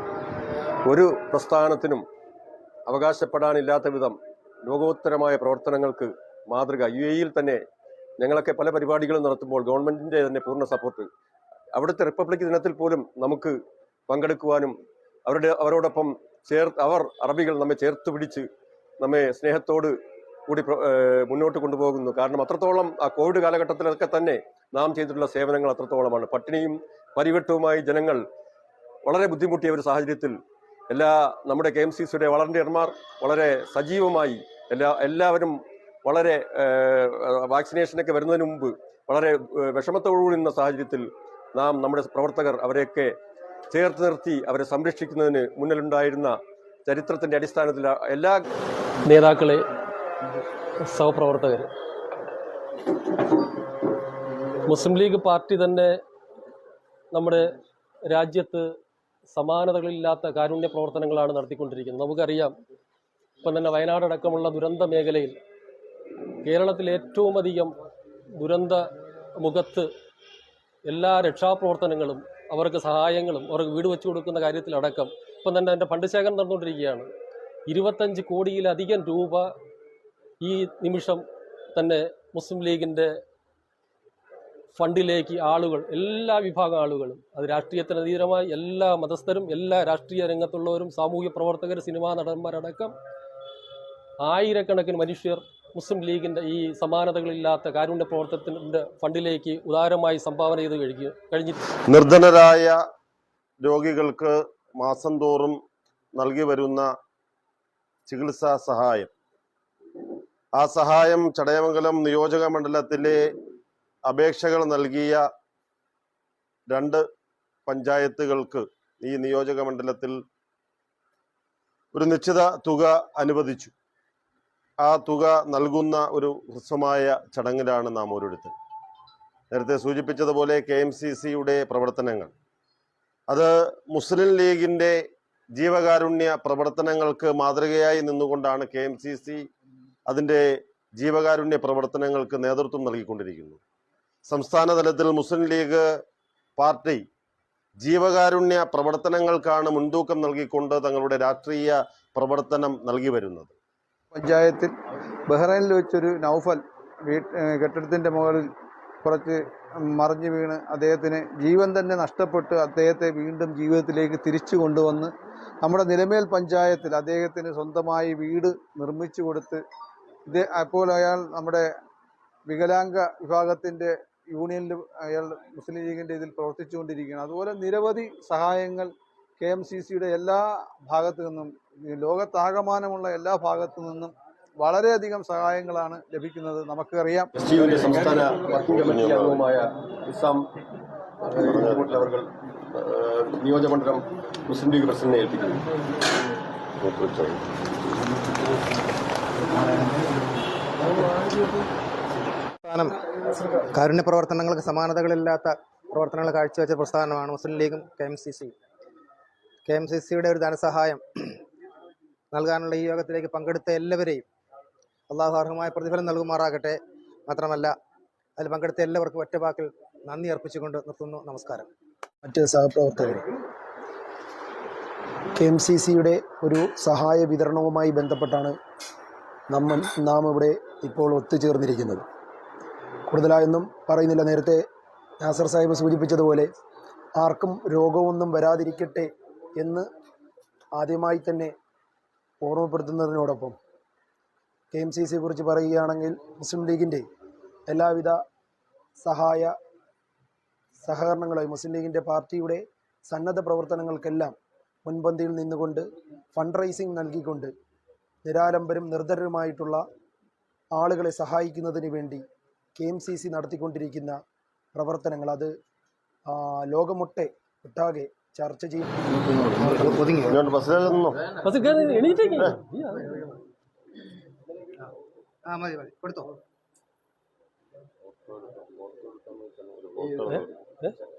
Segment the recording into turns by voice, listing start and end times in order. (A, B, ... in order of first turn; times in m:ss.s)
0:00.8-0:02.0 A
0:02.9-0:07.6 A
0:08.2-0:11.1 A
0:11.7-0:13.6 A
0:14.1-0:18.5 A
0:19.0-0:19.9 A
0:20.5-0:28.2 A
0:29.0-0:30.4 A
0:30.9-0:43.1 A
0:43.7-0:48.4 A
0:49.0-0:49.6 B
0:50.8-0:51.7 B
0:54.6-0:56.0 B
0:57.1-0:57.5 B
0:58.1-0:58.7 B
0:59.3-1:02.6 B
1:03.4-1:05.4 B
1:06.4-1:07.7 B
1:08.4-1:08.8 B
1:09.4-1:09.9 B
1:10.8-1:17.1 B
1:17.7-1:19.5 B
1:20.4-1:21.2 B
1:21.8-1:23.1 B
1:24.8-1:32.9 B
1:34.2-1:41.6 B
1:41.9-1:42.8 C
1:43.6-1:45.6 C
1:46.1-1:46.9 C
1:48.1-1:49.1 C
1:50.6-1:53.2 C
1:54.1-1:55.2 C
1:56.7-1:57.0 C
1:57.7-2:00.2 C
2:01.9-2:03.7 C
2:04.8-2:08.5 C
2:09.5-2:12.3 C
2:13.3-2:15.0 C
2:15.6-2:19.4 C
2:20.1-2:20.4 C
2:21.0-2:23.6 C
2:24.3-2:25.8 C
2:26.6-2:27.0 C
2:27.8-2:33.5 C
2:34.1-2:34.7 D
2:35.3-2:38.5 D
2:39.0-2:45.1 D
2:45.6-2:49.6 D
2:50.3-2:51.7 D
2:52.5-3:07.3 D
3:07.3-3:10.5 A
3:08.8-3:09.4 C
3:11.2-3:15.6 A
3:16.8-3:17.4 C
3:22.6-3:28.5 E
3:29.6-3:31.4 E
3:32.3-3:34.2 E
3:35.1-3:37.7 E
3:38.4-3:41.7 E
3:42.2-3:43.2 F
3:45.4-3:48.6 F
3:49.5-3:52.0 F
3:53.1-3:54.6 F
3:55.2-3:56.5 F
3:57.2-3:59.8 F
4:00.8-4:01.5 F
4:02.4-4:03.6 F
4:04.7-4:07.0 F
4:07.7-4:08.2 F
4:09.0-4:09.5 F
4:10.8-4:14.3 F
4:14.8-4:17.5 F
4:18.2-4:19.8 F
4:20.7-4:22.2 F
4:22.8-4:24.2 F
4:24.8-4:25.5 F
4:26.3-4:28.9 F
4:29.6-4:30.4 E
4:30.5-4:31.2 C
4:31.4-4:33.3 B
4:35.5-4:36.3 E
4:39.7-4:40.5 C
4:40.3-4:40.9 B